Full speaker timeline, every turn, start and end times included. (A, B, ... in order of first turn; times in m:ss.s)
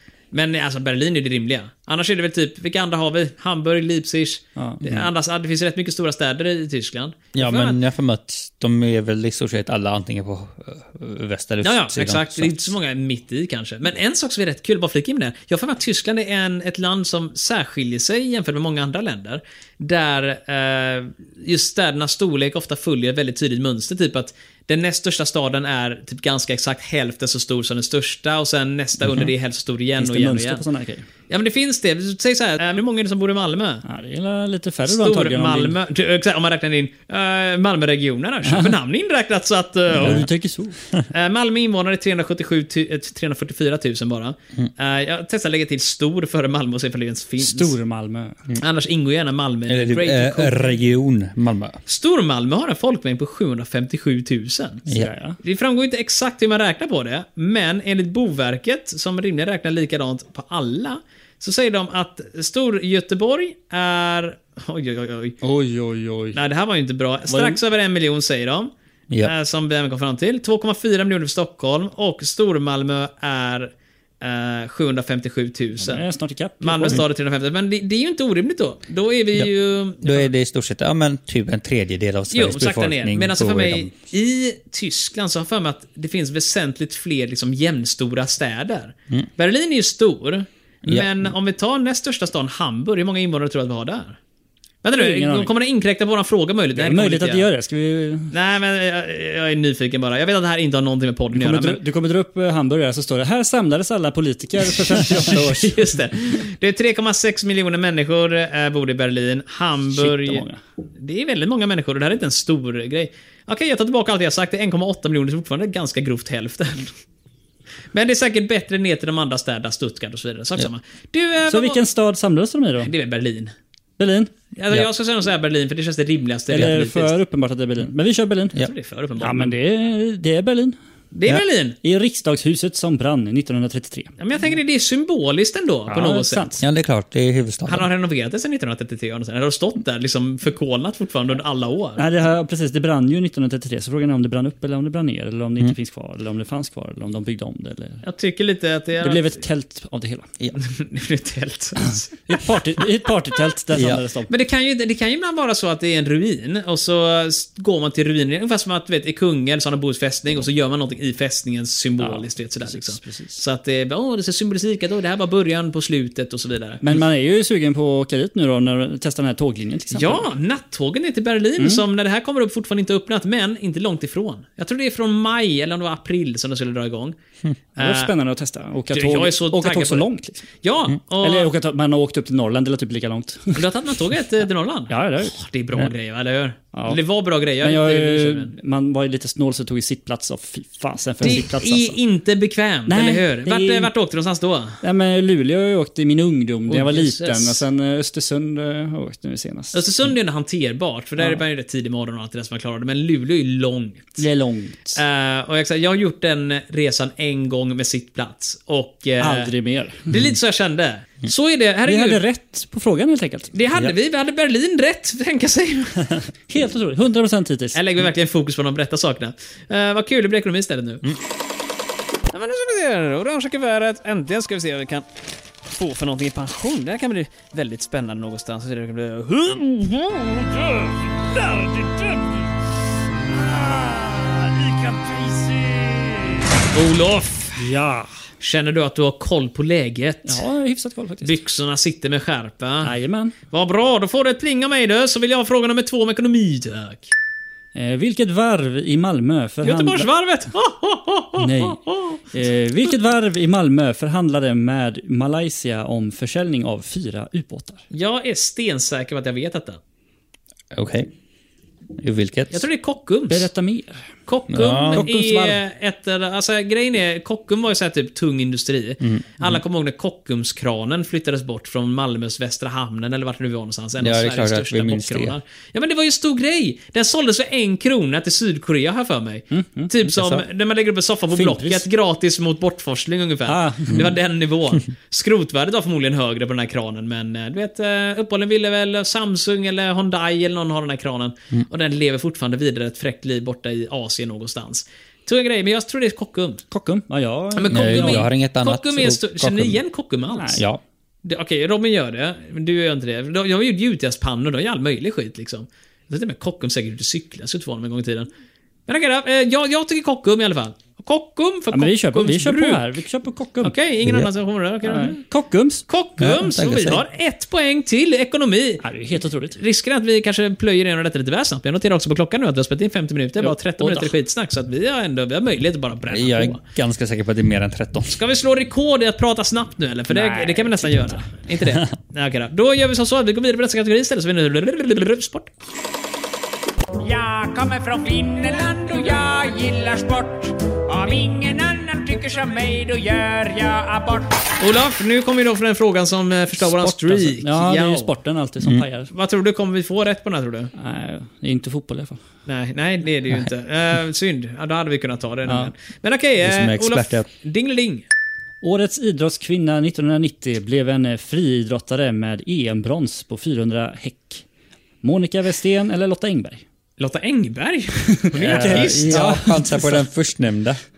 0:00.3-0:07.8 A
0:07.3-0:12.7 B
0:11.6-0:30.6 A
0:30.0-0:31.0 C
0:31.3-0:33.8 A
0:33.8-0:35.8 C
0:34.9-0:40.2 A
0:38.4-0:38.8 C
0:39.9-0:40.8 C
0:41.1-0:47.7 A
0:47.4-0:48.4 C
0:48.6-0:50.7 A
0:49.7-0:51.8 B
0:51.8-0:54.8 A
0:54.9-0:55.4 C
0:55.4-1:05.4 A
1:05.4-1:06.4 C
1:06.3-1:08.7 A
1:07.3-1:07.6 C
1:09.2-1:16.0 A
1:15.8-1:17.0 C
1:16.6-1:20.3 A
1:20.0-1:23.9 B
1:22.3-1:34.2 A
1:30.8-1:31.3 B
1:34.8-1:37.4 A
1:34.9-1:35.5 C
1:36.8-1:38.3 C
1:38.3-1:41.8 A
1:41.3-1:45.9 C
1:45.0-1:50.4 A
1:49.9-1:50.6 C
1:51.0-1:56.9 A
1:57.9-2:01.8 A
2:01.5-2:02.9 C
2:02.8-2:03.5 A
2:04.0-2:04.3 C
2:04.6-2:07.1 A
2:06.5-2:08.6 C
2:08.6-2:09.5 A
2:09.2-2:10.8 C
2:11.1-2:11.8 A
2:11.8-2:14.1 C
2:14.2-2:16.6 A
2:15.9-2:16.6 C
2:16.6-2:17.9 B
2:17.6-2:22.0 A
2:22.0-2:28.0 C
2:28.0-2:29.4 A
2:29.0-2:30.3 C
2:30.5-2:32.6 A
2:31.8-2:34.3 C
2:33.7-2:34.0 B
2:34.3-2:46.9 A
2:42.0-2:43.4 C
2:46.8-2:50.3 C
2:49.9-2:57.2 A
2:51.6-2:51.8 C
2:57.8-2:58.1 A
2:57.8-3:00.4 C
2:58.9-3:00.0 A
3:00.6-3:01.5 A
3:01.2-3:03.9 C
3:03.5-3:08.5 A
3:04.9-3:05.9 C
3:06.7-3:07.0 C
3:07.6-3:12.0 C
3:11.2-3:14.8 A
3:12.9-3:13.9 C
3:14.8-3:19.8 C
3:16.7-3:17.6 A
3:19.7-3:24.2 A
3:24.2-3:25.0 C
3:25.0-3:29.5 A
3:29.2-3:30.1 C
3:30.1-3:32.2 A
3:31.8-3:33.6 C
3:33.5-3:36.2 A
3:36.5-3:37.8 C
3:37.7-3:41.1 A
3:42.3-3:45.0 A
3:45.7-3:50.9 A
3:51.4-3:52.2 C
3:51.4-3:52.1 A
3:53.3-3:56.4 C
3:56.7-3:57.7 A
3:57.6-3:58.1 C
3:58.4-4:00.4 A
4:00.2-4:01.4 C
4:01.2-4:02.9 A
4:02.8-4:03.3 C
4:03.5-4:07.1 A
4:07.7-4:10.1 C
4:09.6-4:12.2 A
4:11.4-4:17.8 C
4:17.9-4:19.8 A
4:20.7-4:21.1 B
4:22.0-4:22.6 B
4:22.5-4:23.5 A
4:23.3-4:24.0 C
4:24.3-4:56.6 A
4:24.5-4:25.0 B
4:24.8-4:25.6 C
4:29.0-4:29.5 B
4:34.0-4:35.4 B
4:39.5-4:39.9 C
4:41.3-4:41.8 C
4:43.5-4:44.1 C
4:56.7-4:58.3 C
4:57.5-5:00.6 A
4:57.7-4:59.8 B
5:00.3-5:00.6 C
5:00.6-5:00.8 B
5:01.2-5:08.3 A
5:08.9-5:12.8 A
5:11.7-5:13.8 C
5:13.6-5:15.2 A
5:14.8-5:15.8 C
5:15.9-5:18.8 A
5:16.2-5:17.0 B
5:18.8-5:19.6 C
5:19.5-5:26.6 A
5:23.4-5:24.1 C
5:26.1-5:28.2 B
5:28.1-5:35.5 A
5:30.1-5:31.3 C
5:37.0-5:44.3 D
5:44.6-5:48.1 A
5:46.6-5:49.1 C
5:49.1-5:50.7 A
5:50.8-5:52.2 C
5:52.5-5:58.0 A
5:55.5-5:55.7 C
5:56.4-5:57.3 B
5:58.6-6:04.4 C
6:05.0-6:06.6 C
6:07.0-6:09.4 A
6:08.3-6:10.0 C
6:08.4-6:10.8 B